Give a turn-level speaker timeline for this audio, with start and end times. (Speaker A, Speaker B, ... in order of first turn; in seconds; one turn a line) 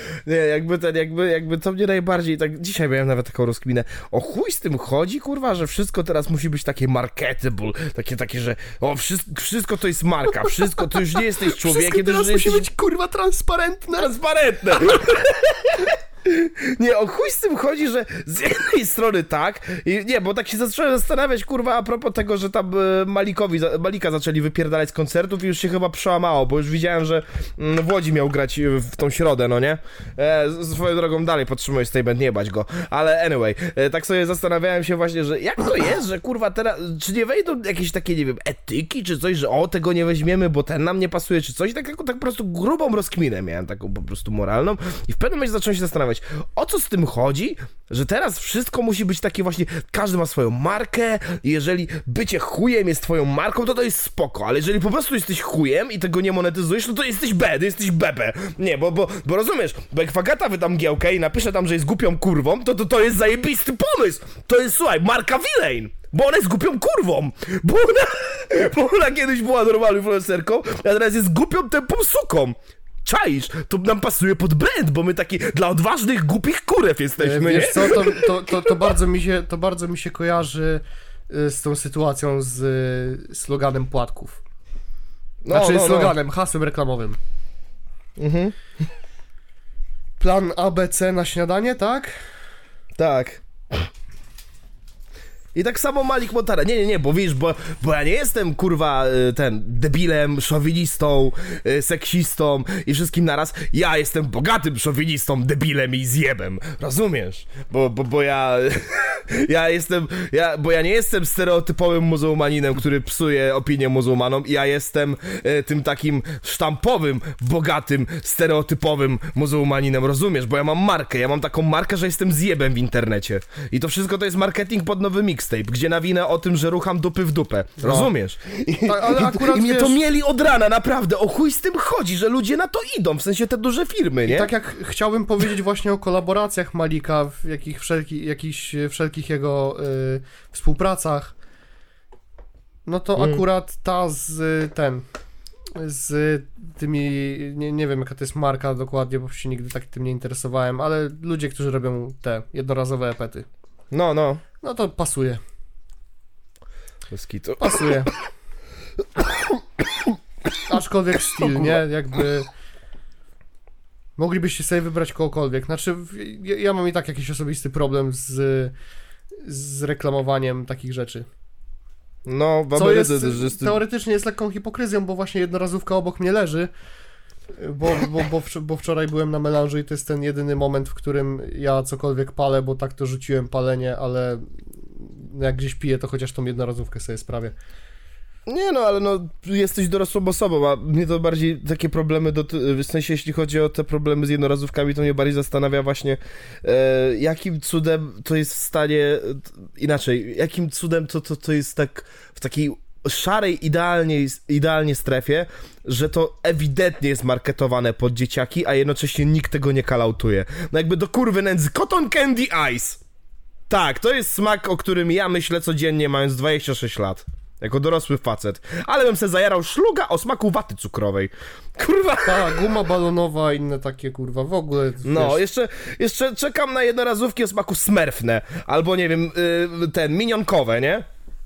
Speaker A: 0.2-12.7
Speaker B: 11.0-14.1
Speaker A: 14.0-78.4
Speaker B: 77.2-84.4
Speaker A: 85.4-86.1
Speaker B: 85.5-87.2
Speaker A: 88.2-88.5
Speaker B: 90.2-92.2
Speaker A: 93.0-93.9
Speaker A: 95.5-134.5
Speaker B: 127.8-128.1
Speaker B: 128.8-130.0
Speaker B: 134.2-141.3
Speaker B: 142.8-145.0
Speaker A: 143.2-143.4
Speaker B: 145.7-153.5
Speaker A: 153.9-154.4
Speaker B: 154.6-155.4
Speaker A: 157.1-157.9
Speaker B: 157.6-158.1
Speaker B: 160.7-162.5
Speaker A: 161.4-161.8
Speaker B: 164.2-168.7
Speaker B: 169.4-171.3
Speaker A: 172.2-173.8
Speaker B: 172.7-176.7
Speaker B: 177.6-187.5
Speaker A: 188.4-213.0
Speaker A: 213.7-222.7
Speaker B: 222.2-225.4
Speaker A: 225.0-231.1